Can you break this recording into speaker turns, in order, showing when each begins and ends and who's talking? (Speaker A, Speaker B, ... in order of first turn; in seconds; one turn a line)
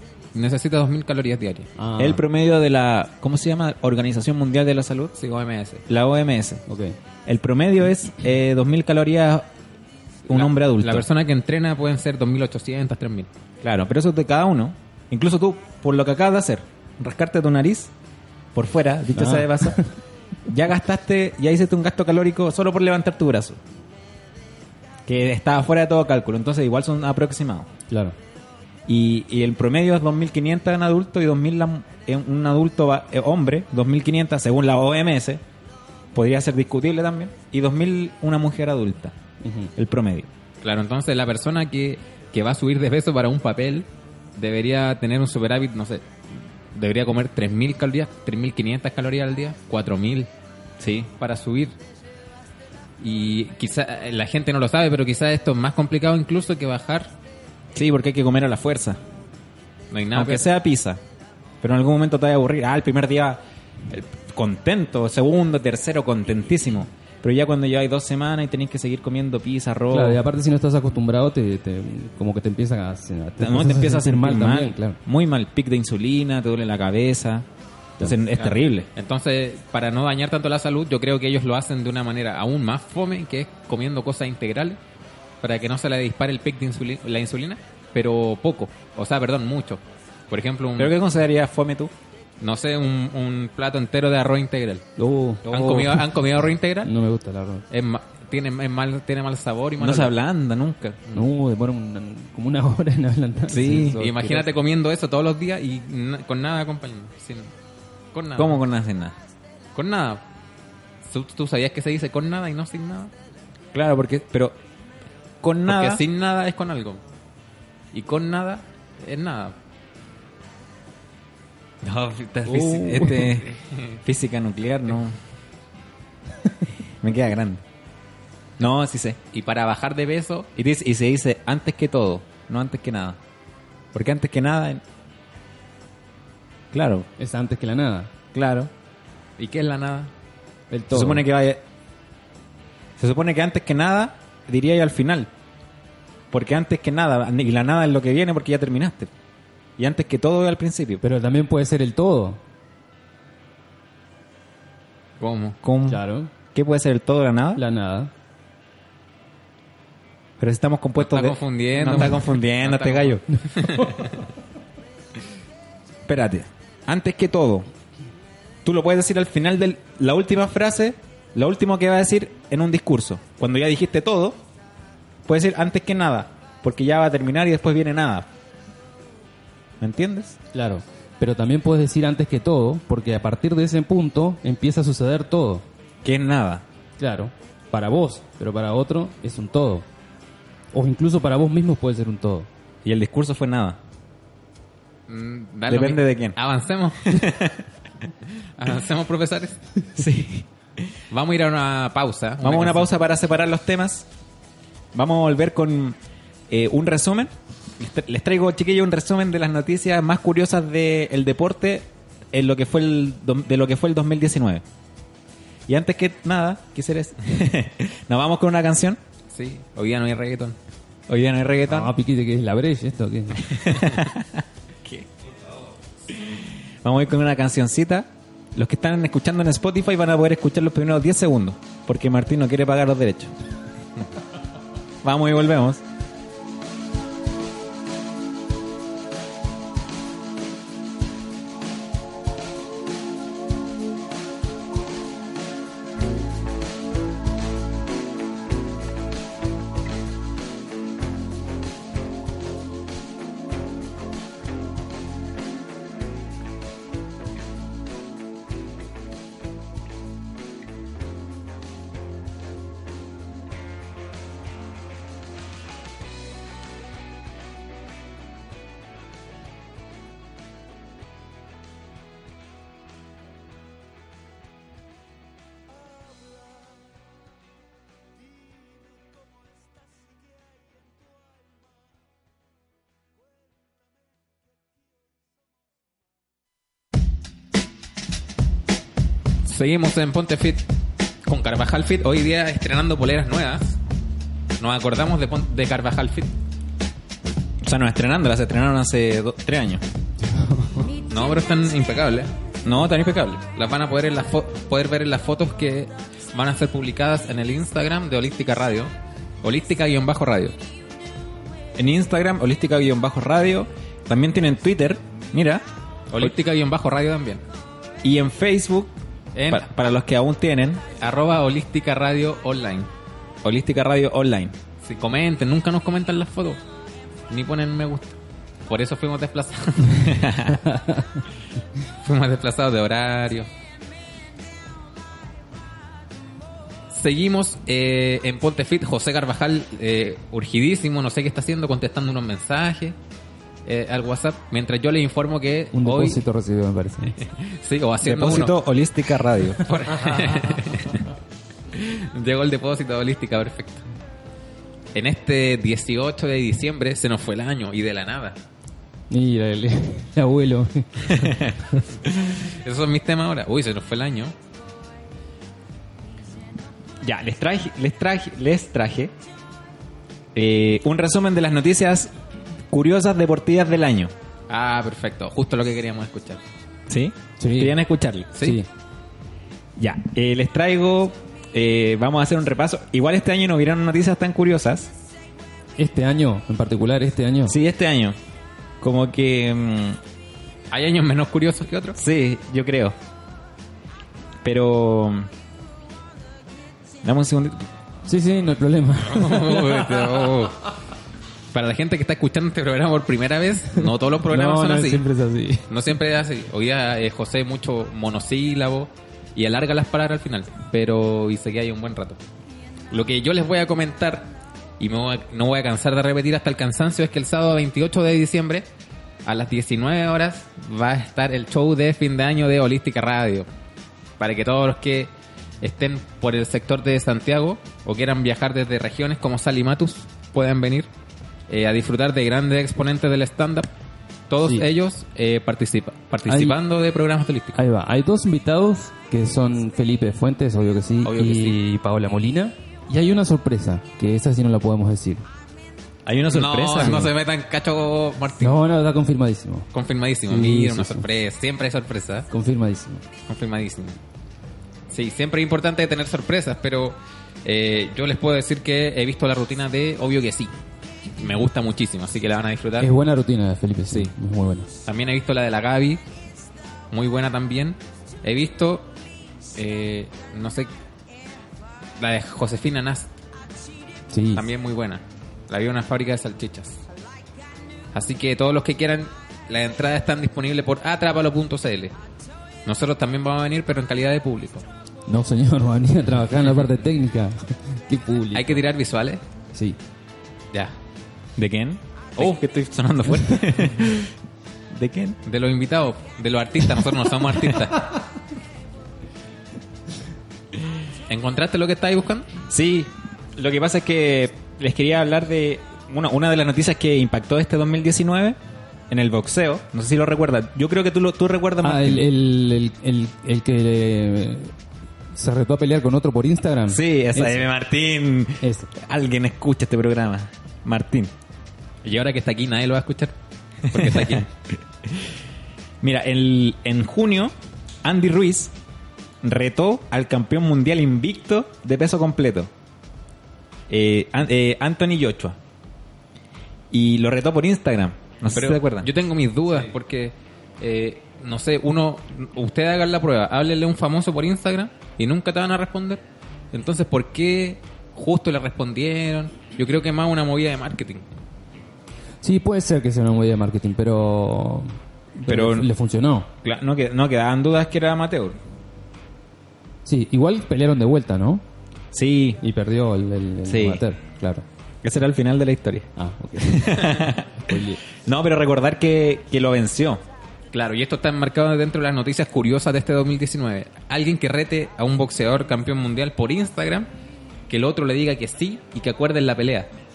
Speaker A: 0.3-1.7
Speaker B: 1.8-2.2
Speaker C: 2.0-5.1
Speaker A: 5.2-5.8
Speaker C: 5.9-6.6
Speaker B: 6.7-7.0
Speaker C: 7.3-9.5
Speaker C: 10.3-11.1
Speaker A: 10.3-13.3
Speaker C: 13.6-17.9
Speaker C: 18.5-19.8
Speaker B: 19.1-19.9
Speaker C: 20.5-23.6
Speaker C: 25.1-27.7
Speaker B: 27.9-28.1
Speaker C: 28.9-35.4
Speaker C: 36.1-39.1
Speaker B: 39.4-39.7
Speaker C: 39.8-40.3
Speaker A: 40.6-46.1
Speaker A: 46.8-50.3
Speaker C: 50.8-51.1
Speaker A: 51.2-51.8
Speaker A: 53.0-57.1
Speaker C: 57.8-59.0
Speaker A: 59.9-60.4
Speaker C: 60.1-61.0
Speaker C: 61.6-70.2
Speaker B: 69.9-75.0
Speaker C: 73.4-77.5
Speaker C: 78.0-78.9
Speaker A: 78.4-84.8
Speaker A: 85.4-91.0
Speaker C: 90.8-91.9
Speaker A: 92.4-94.8
Speaker B: 95.0-95.5
Speaker C: 95.5-96.0
Speaker A: 95.5-96.9
Speaker B: 96.8-97.7
Speaker A: 97.7-100.1
Speaker C: 99.8-101.0
Speaker B: 101.1-104.5
Speaker C: 103.5-104.0
Speaker A: 103.8-107.5
Speaker A: 108.1-108.6
Speaker C: 108.4-109.2
Speaker A: 109.8-110.2
Speaker A: 111.0-113.1
Speaker C: 113.7-114.6
Speaker C: 115.4-116.0
Speaker A: 115.7-117.0
Speaker A: 117.9-119.5
Speaker C: 121.8-123.5
Speaker B: 122.5-123.3
Speaker A: 123.1-123.9
Speaker C: 124.0-125.2
Speaker C: 127.0-127.6
Speaker C: 128.6-129.2
Speaker A: 129.3-130.5
Speaker C: 130.6-133.2
Speaker C: 133.9-134.8
Speaker C: 136.7-137.1
Speaker B: 137.2-138.1
Speaker C: 138.3-138.7
Speaker A: 139.4-140.1
Speaker B: 140.7-141.3
Speaker C: 140.9-141.6
Speaker C: 143.0-145.3
Speaker C: 146.3-149.1
Speaker C: 149.8-151.0
Speaker B: 151.0-152.4
Speaker A: 155.2-155.6
Speaker C: 155.6-157.6
Speaker B: 155.9-156.3
Speaker B: 157.6-158.1
Speaker C: 160.4-163.2
Speaker A: 161.0-164.2
Speaker C: 166.1-167.7
Speaker C: 168.7-174.4
Speaker C: 175.3-178.3
Speaker C: 179.8-180.4
Speaker B: 180.5-185.7
Speaker C: 186.0-186.6
Speaker B: 187.0-189.9
Speaker B: 190.7-192.5
Speaker C: 192.8-193.8
Speaker A: 195.1-197.2
Speaker C: 195.7-196.4
Speaker C: 197.1-197.6
Speaker A: 198.6-199.6
Speaker C: 200.0-200.5
Speaker A: 201.1-202.9
Speaker C: 202.4-204.1
Speaker C: 204.9-206.0
Speaker C: 206.5-214.6
Speaker C: 215.7-219.0
Speaker A: 219.3-220.6
Speaker C: 221.1-221.9
Speaker B: 221.7-223.7
Speaker C: 223.4-225.1
Speaker C: 226.1-233.3
Speaker C: 235.0-235.8
Speaker A: 289.4-290.6
Speaker A: 291.3-293.8
Speaker A: 294.6-296.3
Speaker C: 297.6-299.8
Speaker B: 300.2-300.9
Speaker A: 301.1-302.3
Speaker C: 302.6-303.4
Speaker A: 302.8-310.6
Speaker C: 311.8-315.6
Speaker A: 316.1-317.4
Speaker C: 318.0-318.9
Speaker A: 319.4-319.7
Speaker C: 319.5-320.9
Speaker A: 321.0-322.9
Speaker C: 323.4-324.6
Speaker A: 324.8-326.6
Speaker A: 327.3-330.4
Speaker C: 330.1-330.6
Speaker B: 330.7-331.2
Speaker A: 332.0-333.5
Speaker A: 336.9-343.0
Speaker A: 343.6-346.2
Speaker B: 345.7-347.2
Speaker A: 347.2-348.6
Speaker C: 348.0-349.6
Speaker A: 349.6-351.1
Speaker A: 351.7-353.8
Speaker A: 354.9-358.4
Speaker B: 359.1-361.5
Speaker C: 361.1-361.6
Speaker A: 362.1-364.3
Speaker C: 367.0-369.1
Speaker C: 370.4-372.1
Speaker C: 372.7-374.1
Speaker A: 374.5-376.4
Speaker C: 376.9-378.3
Speaker B: 377.4-377.8
Speaker A: 378.4-378.6
Speaker B: 378.4-378.7
Speaker C: 379.8-384.9
Speaker B: 385.8-387.6
Speaker C: 387.5-388.2
Speaker C: 388.8-390.0
Speaker A: 390.7-392.0
Speaker C: 392.0-393.0
Speaker C: 394.4-395.3
Speaker C: 397.0-397.7
Speaker B: 398.1-400.1
Speaker A: 399.1-400.7
Speaker A: 401.5-405.1
Speaker B: 403.8-405.7
Speaker A: 405.7-412.2
Speaker A: 412.9-418.7
Speaker A: 419.2-423.5
Speaker A: 424.2-425.1
Speaker A: 425.6-430.9
Speaker A: 431.5-433.7
Speaker A: 434.3-437.6
Speaker B: 436.3-436.6
Speaker B: 437.6-445.3
Speaker A: 441.0-441.6
Speaker C: 446.1-447.1
Speaker A: 446.3-448.6
Speaker B: 446.8-447.1
Speaker B: 448.4-449.7
Speaker A: 449.7-452.3
Speaker B: 450.3-451.1
Speaker B: 452.3-453.0
Speaker A: 453.3-454.0
Speaker A: 454.9-460.5
Speaker A: 461.2-462.9
Speaker B: 462.8-464.7
Speaker A: 464.9-466.0
Speaker A: 466.9-468.9
Speaker A: 469.6-470.7
Speaker A: 472.0-473.1
Speaker B: 474.1-474.4
Speaker A: 474.4-476.8
Speaker A: 477.9-481.9
Speaker A: 482.7-484.6
Speaker B: 485.1-488.6
Speaker A: 486.5-486.7
Speaker A: 488.3-489.2
Speaker C: 491.4-494.1
Speaker C: 494.7-495.2
Speaker A: 495.3-497.9
Speaker A: 501.1-502.3
Speaker C: 502.5-508.4
Speaker C: 508.9-512.1
Speaker B: 511.6-514.5
Speaker B: 515.1-517.5
Speaker C: 516.7-521.1
Speaker B: 518.4-518.7
Speaker A: 521.8-523.1
Speaker A: 523.7-524.3
Speaker C: 523.7-524.3
Speaker C: 524.8-525.1
Speaker C: 525.8-528.5
Speaker C: 529.2-532.5
Speaker C: 533.7-535.4
Speaker C: 536.7-538.9
Speaker A: 538.3-546.0
Speaker A: 546.5-551.0
Speaker B: 552.2-556.3
Speaker C: 555.2-555.7
Speaker C: 556.4-558.4
Speaker B: 559.9-561.4
Speaker C: 561.9-562.4
Speaker B: 562.4-564.4
Speaker C: 563.5-563.8
Speaker C: 564.8-570.0
Speaker B: 566.0-567.8
Speaker A: 570.5-576.9
Speaker A: 577.5-579.7